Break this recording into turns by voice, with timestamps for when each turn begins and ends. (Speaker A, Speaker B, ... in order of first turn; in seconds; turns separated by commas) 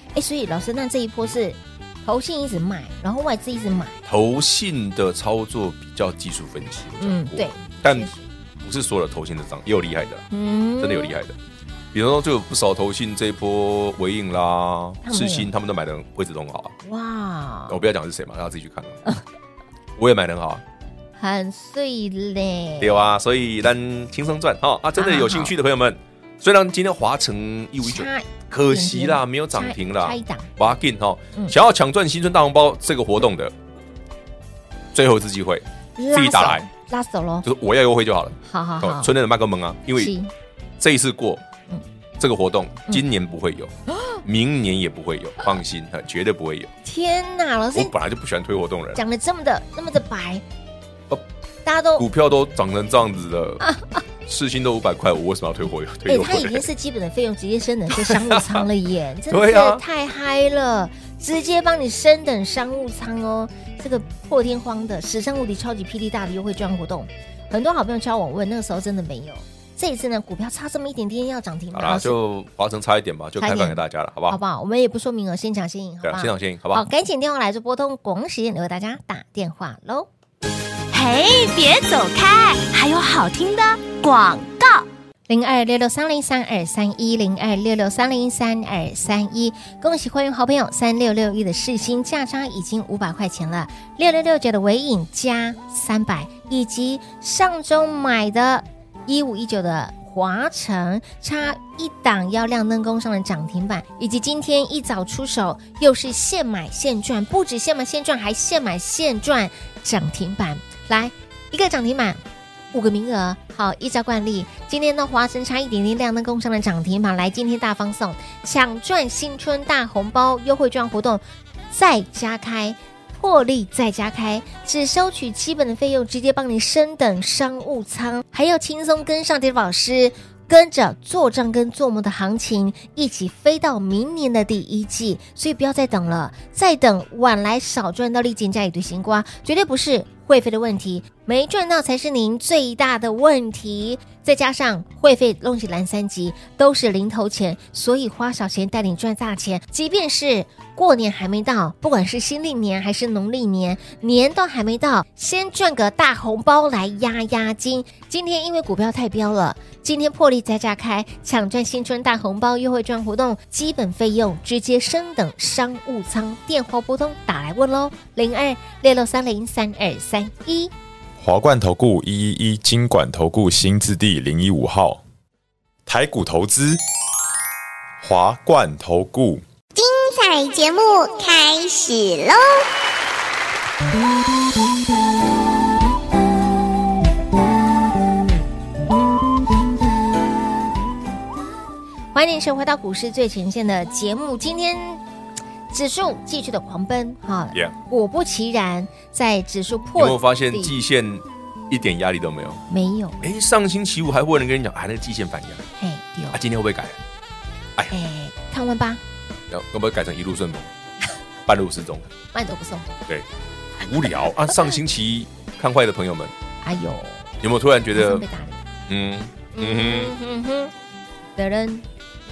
Speaker A: 0.1-4.0, Speaker B: 4.1-8.1, Speaker A: 7.0-8.3, Speaker B: 8.6-10.3, Speaker A: 10.3-11.2, Speaker B: 10.8-11.4, Speaker B: 11.9-16.8, Speaker A: 15.0-15.5, Speaker A: 16.9-17.8, Speaker B: 17.7-19.0, Speaker B: 20.0-20.6, Speaker A: 21.2-23.1, Speaker B: 22.8-33.5, Speaker A: 25.0-25.5, Speaker A: 27.8-30.5, Speaker B: 34.9-36.7, Speaker A: 36.0-37.5, Speaker B: 37.4-40.1, Speaker A: 38.5-39.1, Speaker A: 40.0-40.3, Speaker B: 40.8-41.4, Speaker B: 42.2-46.7, Speaker A: 46.8-47.9, Speaker B: 47.7-49.0, Speaker A: 49.0-50.4, Speaker A: 51.6-52.0, Speaker B: 52.0-53.6, Speaker A: 53.6-54.0, Speaker B: 54.3-56.7, Speaker A: 56.1-72.2, Speaker B: 57.9-58.7, Speaker B: 59.3-59.8, Speaker B: 71.7-74.4, Speaker A: 73.4-80.1, Speaker B: 76.0-76.9, Speaker C: 80.9-84.9, Speaker A: 85.3-112.2, Speaker A: 112.7-170.7, Speaker D: 171.2-175.0, Speaker D: 175.9-176.8, Speaker D: 178.0-179.4, Speaker E: 179.8-182.6, Speaker A: 192.1-195.0, Speaker A: 195.7-200.8, Speaker B: 200.0-202.6, Speaker A: 202.7-203.3, Speaker B: 203.2-205.6, Speaker A: 205.8-206.4, Speaker B: 206.3-207.0, Speaker A: 207.9-209.0, Speaker B: 209.5-210.7, Speaker B: 211.5-212.1, Speaker A: 212.3-213.0, Speaker B: 213.8-216.3, Speaker A: 216.6-217.3, Speaker B: 217.4-218.2, Speaker A: 217.9-218.6, Speaker B: 218.9-220.2, Speaker A: 219.5-220.7, Speaker A: 221.4-221.8